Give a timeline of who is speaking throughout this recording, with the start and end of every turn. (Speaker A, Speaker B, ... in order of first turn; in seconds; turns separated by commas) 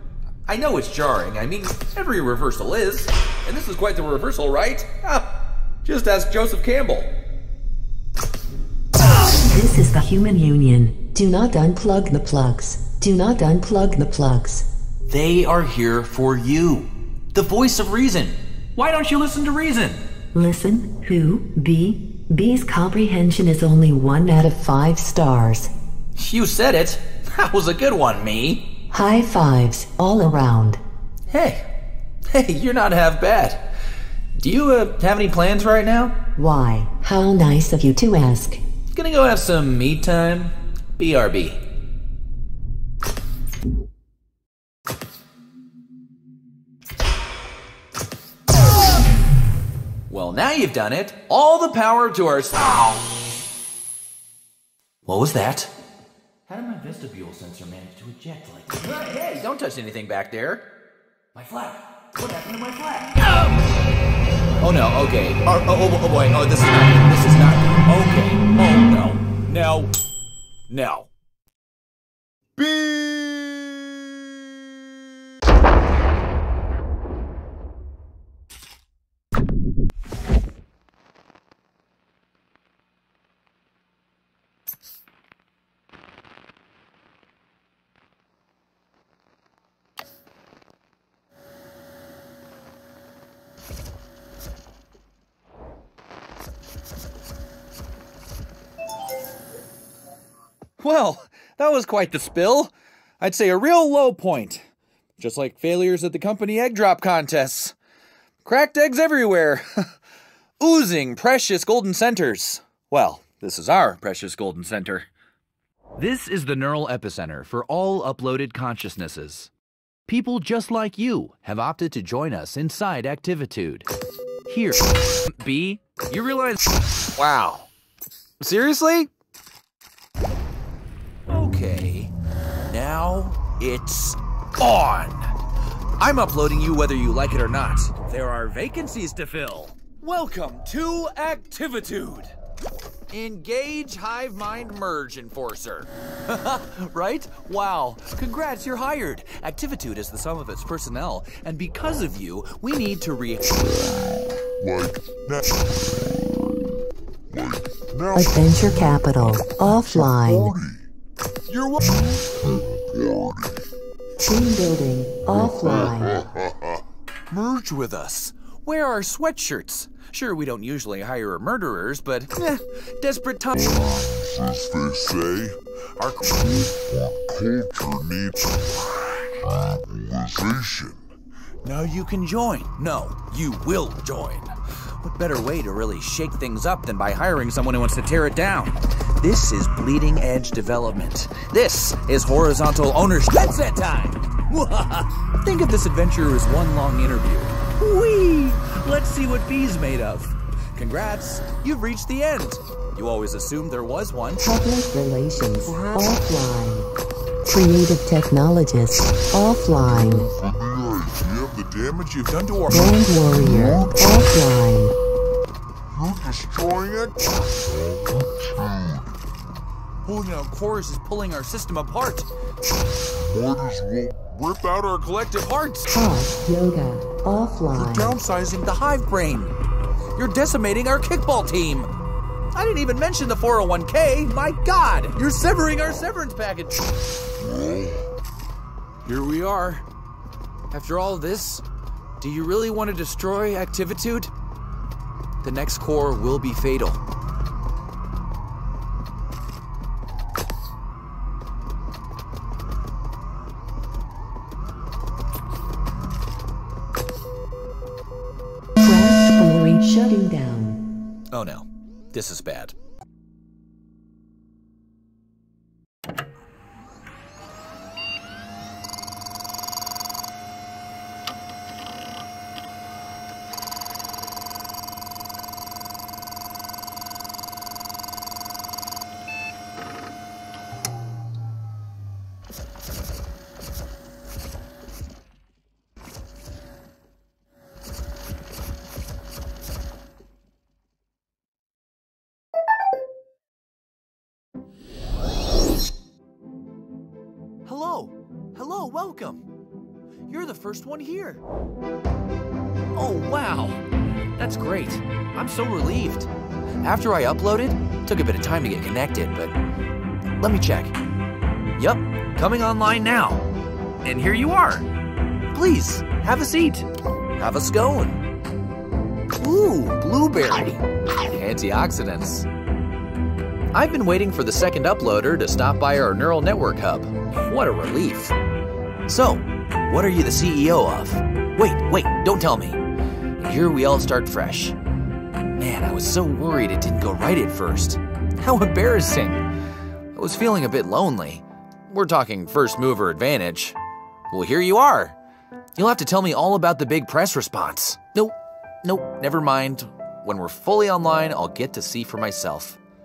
Speaker A: 0.5-5.3, Speaker A: 5.8-7.1, Speaker B: 9.3-14.7, Speaker A: 15.1-20.0, Speaker B: 20.3-25.7, Speaker A: 26.1-28.6, Speaker B: 28.9-30.8, Speaker A: 31.3-31.6, Speaker A: 32.3-33.7, Speaker A: 34.4-36.1, Speaker B: 36.4-38.6, Speaker A: 38.9-41.6, Speaker A: 50.1-53.0, Speaker A: 55.0-55.7, Speaker A: 56.5-60.6, Speaker A: 61.3-63.6, Speaker A: 64.6-69.9, Speaker A: 70.7-71.1, Speaker A: 72.6-73.8, Speaker A: 100.8-104.7, Speaker A: 105.2-107.7, Speaker A: 108.4-109.8, Speaker A: 110.6-115.1, Speaker A: 116.0-119.5, Speaker A: 120.1-123.9, Speaker A: 124.5-126.6, Speaker A: 127.2-127.7, Speaker A: 128.4-129.1, Speaker A: 131.3-132.1, Speaker A: 132.7-135.3, Speaker A: 136.0-142.3, Speaker A: 143.1-153.5, Speaker C: 153.6-156.4, Speaker C: 157.3-158.6, Speaker B: 158.1-160.5, Speaker C: 159.7-160.8, Speaker C: 161.5-163.5, Speaker B: 164.2-166.3, Speaker C: 165.3-166.8, Speaker A: 167.3-173.9, Speaker C: 173.6-181.0, Speaker A: 181.6-204.4, Speaker B: 204.4-206.9, Speaker B: 207.4-210.3, Speaker C: 210.3-212.2, Speaker A: 212.2-212.9, Speaker B: 212.7-214.9, Speaker C: 213.4-214.0, Speaker C: 215.9-219.0, Speaker A: 220.1-222.3, Speaker C: 223.2-224.9, Speaker A: 224.8-225.9, Speaker B: 225.9-228.2, Speaker A: 227.7-229.5, Speaker A: 230.2-231.9, Speaker A: 232.5-236.8, Speaker C: 237.4-238.0, Speaker A: 239.0-239.8, Speaker A: 240.7-241.6, Speaker A: 242.2-244.3, Speaker A: 245.4-247.0, Speaker B: 258.8-260.8, Speaker A: 261.3-262.7, Speaker A: 297.6-299.4, Speaker A: 300.3-301.4, Speaker A: 302.9-303.8, Speaker A: 304.4-306.3, Speaker A: 306.8-309.5, Speaker A: 310.4-310.9, Speaker A: 311.8-313.4, Speaker A: 314.0-314.9, Speaker A: 315.5-316.9, Speaker A: 317.4-318.2, Speaker A: 319.4-320.8, Speaker A: 321.3-322.4, Speaker A: 323.7-328.3, Speaker A: 329.1-332.8, Speaker A: 333.4-334.8, Speaker A: 335.6-339.4, Speaker A: 340.1-343.8, Speaker A: 344.3-345.1, Speaker A: 345.8-352.8